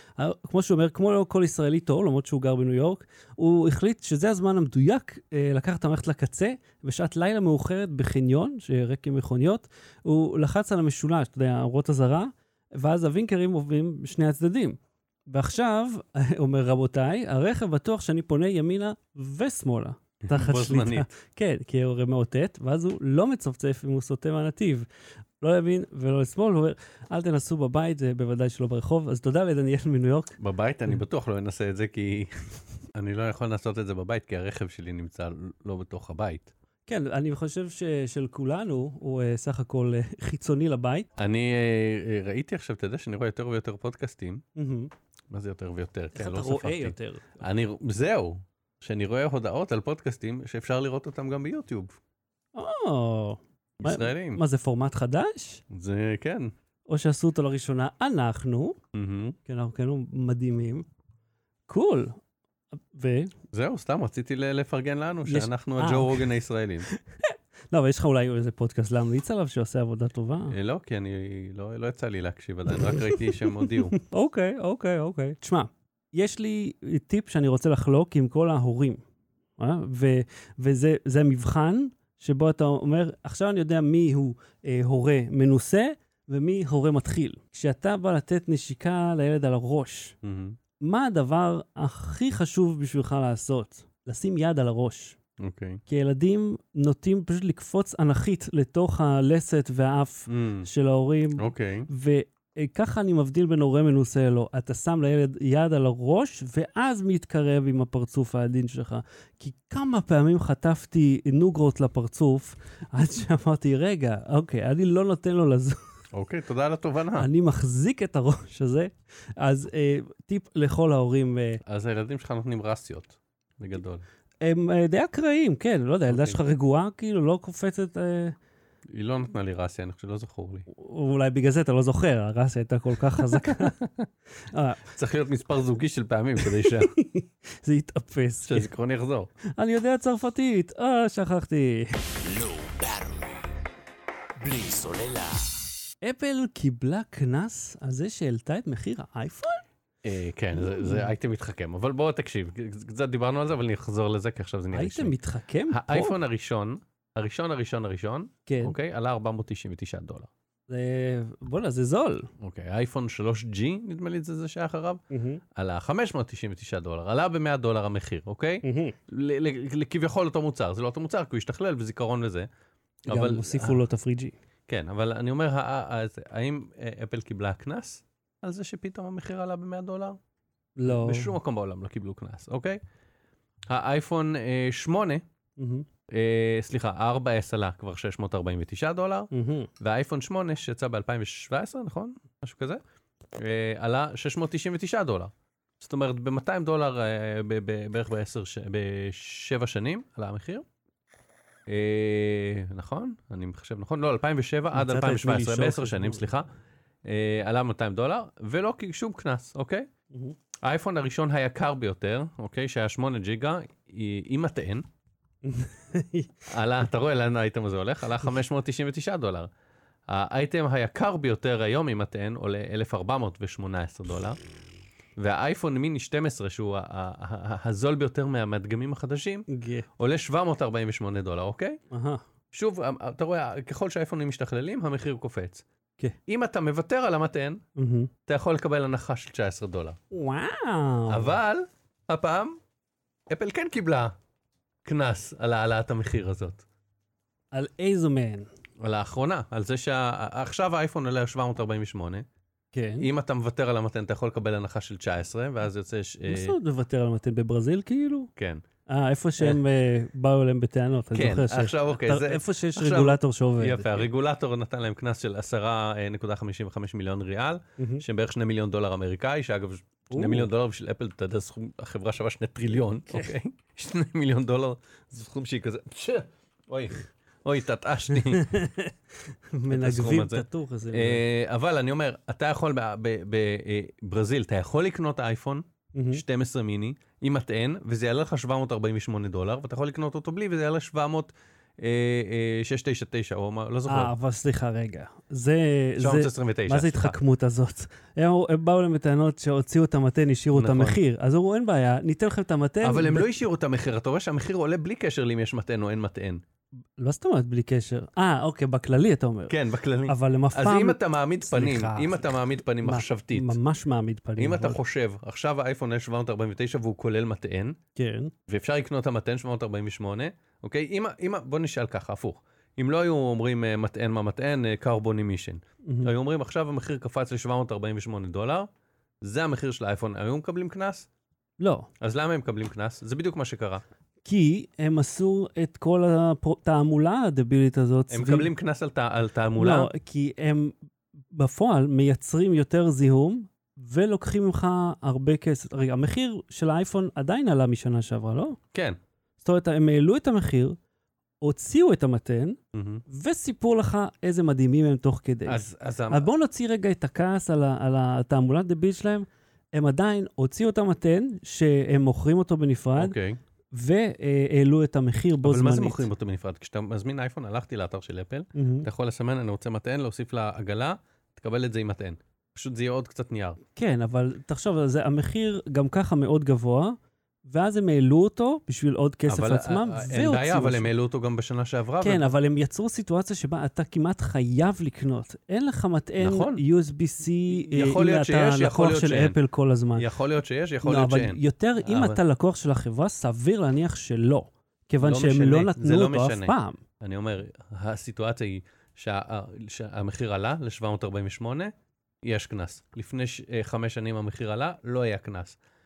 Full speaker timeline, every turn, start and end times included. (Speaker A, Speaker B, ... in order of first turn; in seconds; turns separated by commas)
Speaker A: 0.2-24.9, Speaker B: 20.2-21.1, Speaker A: 25.4-30.4, Speaker B: 30.4-32.3, Speaker B: 33.0-36.5, Speaker A: 36.9-41.1, Speaker B: 41.2-44.4, Speaker A: 44.6-44.9, Speaker B: 45.3-52.0, Speaker A: 46.1-47.4, Speaker A: 52.5-55.6, Speaker B: 53.8-54.4, Speaker B: 55.7-56.5, Speaker A: 56.9-58.8, Speaker B: 58.9-59.4, Speaker A: 59.5-60.9, Speaker A: 61.7-62.2, Speaker A: 62.9-63.3, Speaker B: 63.5-66.9, Speaker A: 65.3-66.3, Speaker A: 66.9-70.6, Speaker B: 70.5-74.0, Speaker A: 72.8-79.0, Speaker A: 79.6-90.2, Speaker B: 90.2-90.6, Speaker A: 90.8-95.2, Speaker B: 95.4-95.8, Speaker A: 95.9-115.8, Speaker B: 100.3-100.7, Speaker B: 101.4-101.9, Speaker B: 116.1-117.3, Speaker A: 117.2-121.6, Speaker B: 121.7-124.0, Speaker A: 124.4-128.4, Speaker B: 126.1-126.4, Speaker B: 128.9-130.7, Speaker A: 130.7-133.8, Speaker B: 133.2-134.1, Speaker A: 134.5-134.8, Speaker B: 134.9-136.9, Speaker A: 136.4-138.7, Speaker B: 138.5-139.3, Speaker A: 139.6-141.9, Speaker C: 142.2-143.5, Speaker C: 144.4-145.6, Speaker A: 146.0-149.6, Speaker B: 150.0-155.2, Speaker A: 150.5-151.1, Speaker A: 154.7-156.2, Speaker B: 155.7-160.3, Speaker A: 158.5-158.8, Speaker A: 160.7-162.3, Speaker B: 162.4-165.0, Speaker A: 165.1-165.4, Speaker B: 165.6-172.5, Speaker A: 168.6-169.0, Speaker B: 173.1-173.8, Speaker A: 173.1-174.4, Speaker B: 174.7-180.2, Speaker A: 180.8-181.3, Speaker B: 180.8-182.8, Speaker B: 183.7-185.2, Speaker A: 185.6-185.9, Speaker B: 186.1-192.8, Speaker A: 189.3-189.7, Speaker B: 193.4-200.7, Speaker B: 201.7-206.5, Speaker A: 204.7-206.2, Speaker B: 207.1-209.9, Speaker B: 210.6-214.9, Speaker A: 215.4-216.4, Speaker B: 216.5-219.5, Speaker B: 220.1-224.4, Speaker B: 225.2-229.5, Speaker A: 229.5-229.9, Speaker B: 230.0-231.8, Speaker A: 231.9-232.2, Speaker B: 232.5-235.7, Speaker B: 236.3-237.6, Speaker A: 237.8-238.1, Speaker B: 238.3-240.0, Speaker A: 240.1-241.4, Speaker B: 241.1-242.6, Speaker B: 243.3-244.1, Speaker B: 244.8-246.7, Speaker A: 247.5-248.5, Speaker B: 248.8-252.3, Speaker A: 252.7-253.1, Speaker B: 253.0-256.6, Speaker A: 256.3-258.3, Speaker B: 258.4-258.6, Speaker A: 258.9-264.1, Speaker B: 261.1-278.5, Speaker A: 267.8-268.1, Speaker A: 270.1-270.5, Speaker A: 278.1-281.2, Speaker B: 279.7-294.1, Speaker A: 285.9-286.2, Speaker A: 293.9-303.3, Speaker B: 296.0-297.2, Speaker B: 300.5-301.0, Speaker B: 302.8-306.4, Speaker A: 307.0-314.8, Speaker B: 309.5-313.6, Speaker B: 314.4-317.8, Speaker A: 318.0-318.3, Speaker B: 318.5-328.7, Speaker A: 325.9-326.1, Speaker B: 329.2-331.1, Speaker A: 331.6-331.9, Speaker B: 332.0-333.8, Speaker A: 334.2-338.5, Speaker B: 338.1-339.9, Speaker A: 339.6-340.8, Speaker A: 341.3-348.6, Speaker B: 348.7-349.0, Speaker A: 349.4-350.8, Speaker A: 351.4-363.1, Speaker B: 352.7-353.0, Speaker B: 355.5-356.3, Speaker B: 363.0-363.4, Speaker A: 363.7-366.1, Speaker B: 365.4-373.6, Speaker A: 368.5-368.9, Speaker A: 373.8-380.9, Speaker B: 379.3-382.2, Speaker A: 382.0-390.1, Speaker B: 386.2-386.6, Speaker B: 387.5-389.4, Speaker B: 390.0-392.2, Speaker A: 390.8-396.8, Speaker B: 395.0-405.6